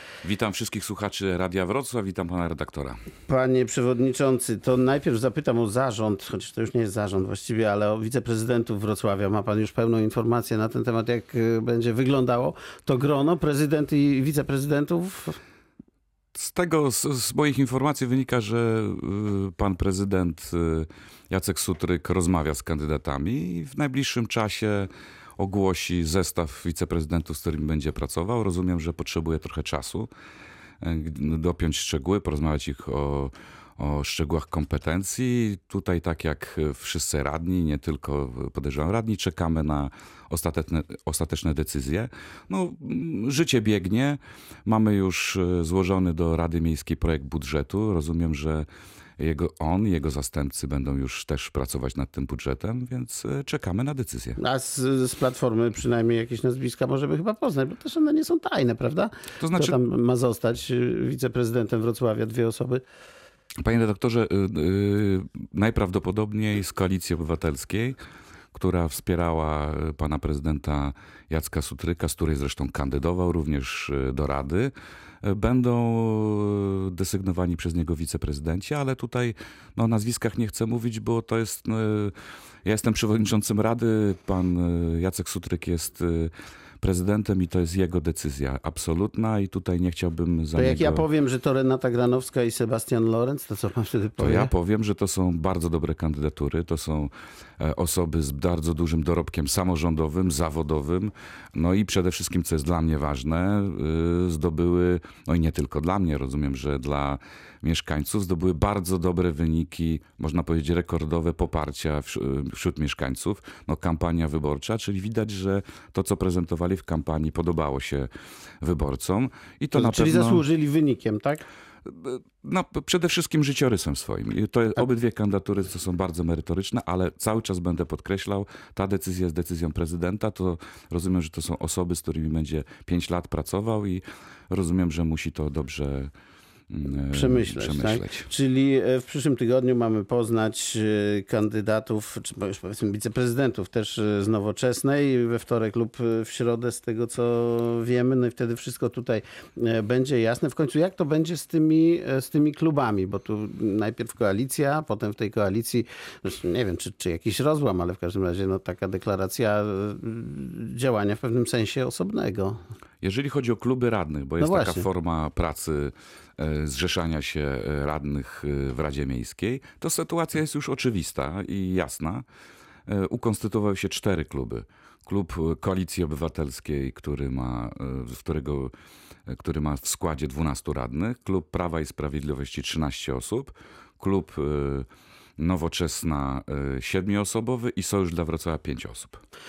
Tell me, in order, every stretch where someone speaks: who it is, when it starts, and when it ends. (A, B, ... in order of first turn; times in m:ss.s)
0:00.2-0:03.0 A
0:03.3-0:15.4 B
0:16.3-0:30.1 A
0:30.8-0:48.7 A
0:49.2-0:54.4 A
0:54.4-1:02.8 B
0:59.4-0:59.8 A
1:03.6-1:08.0 A
1:08.5-1:14.7 A
1:15.2-1:22.1 A
1:22.6-1:31.0 A
1:30.6-1:34.5 B
1:34.2-1:58.1 A
1:58.6-2:00.4 A
1:59.7-2:01.4 B
2:01.8-2:16.1 A
2:16.7-2:18.3 A
2:17.1-2:42.6 B
2:43.0-2:52.2 A
2:44.4-2:44.8 B
2:52.9-2:58.7 A
2:59.3-3:04.9 A
3:05.4-3:09.2 A